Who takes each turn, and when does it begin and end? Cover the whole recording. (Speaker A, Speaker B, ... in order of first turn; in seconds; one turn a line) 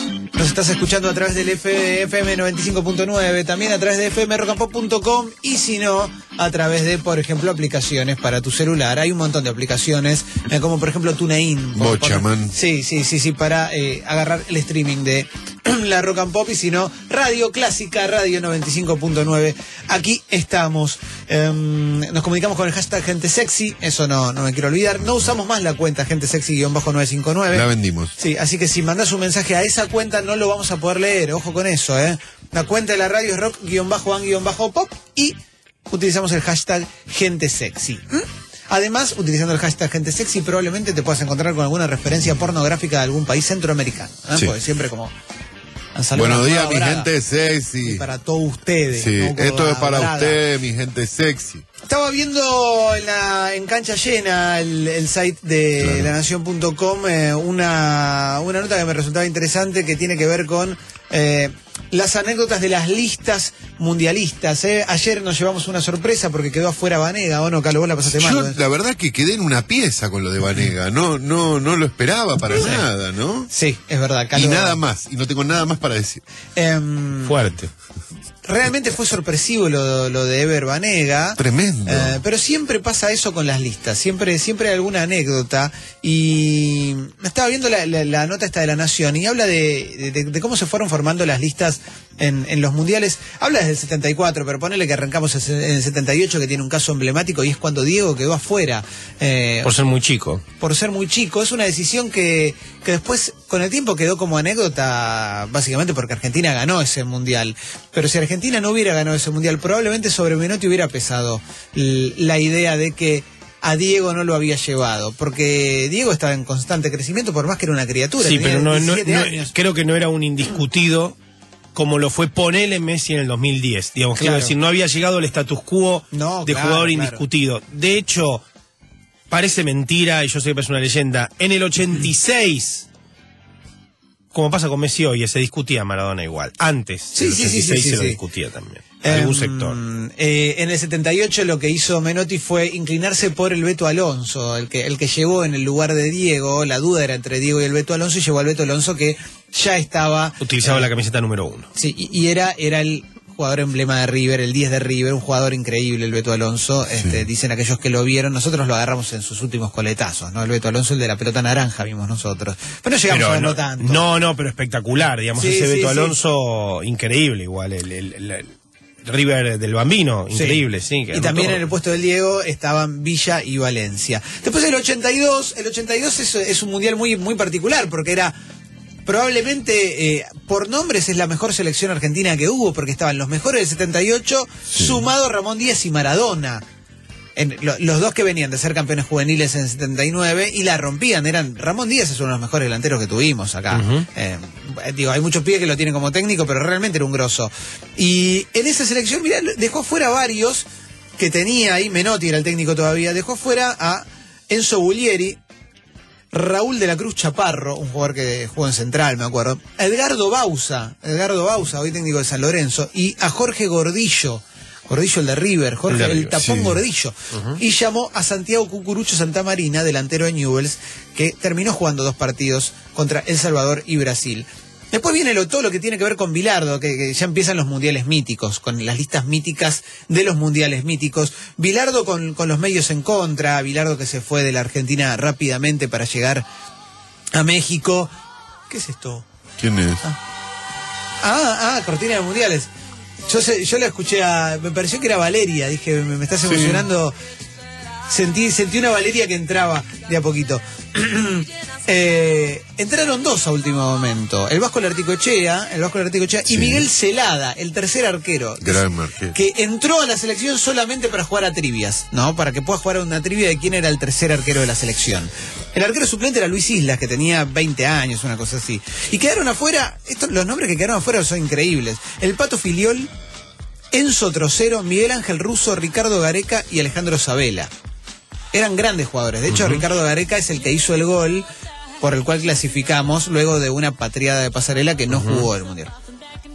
Speaker A: 0.3-35.4
Speaker B: 11.8-12.5
Speaker B: 27.5-28.1
Speaker A: 35.9-45.1
Speaker A: 45.9-47.1
Speaker B: 46.1-48.0
Speaker A: 47.8-50.4
Speaker B: 48.9-51.6
Speaker A: 51.9-68.6
Speaker B: 55.8-56.1
Speaker B: 68.1-73.5
Speaker A: 72.5-72.9
Speaker A: 73.5-74.8
Speaker B: 74.3-76.2
Speaker A: 76.5-77.3
Speaker C: 77.2-77.7
Speaker A: 78.4-99.7
Speaker B: 81.4-82.2
Speaker C: 99.6-100.4
Speaker A: 100.6-119.5
Speaker C: 118.2-121.2
Speaker C: 121.7-128.4
Speaker A: 124.2-124.5
Speaker A: 126.1-127.2
Speaker C: 129.3-132.8
Speaker C: 134.3-139.8
Speaker A: 137.1-138.2
Speaker A: 139.0-150.9
Speaker C: 150.4-151.7
Speaker A: 151.7-164.1
Speaker C: 163.1-171.6
Speaker A: 165.3-166.2
Speaker A: 170.3-178.3
Speaker A: 179.0-186.6
Speaker A: 187.3-200.6
Speaker C: 193.7-194.1
Speaker A: 201.2-205.4
Speaker A: 206.3-236.4
Speaker C: 215.9-216.4
Speaker B: 216.4-216.8
Speaker A: 237.3-238.1
Speaker A: 238.7-239.3
Speaker B: 239.6-240.0
Speaker A: 241.2-242.7
Speaker A: 243.2-247.1
Speaker B: 246.4-246.8
Speaker A: 248.1-273.1
Speaker B: 256.5-256.9
Speaker B: 258.6-259.4
Speaker A: 273.9-277.7
Speaker A: 278.5-281.4
Speaker C: 279.5-279.8
Speaker A: 282.0-285.9
Speaker C: 285.1-285.5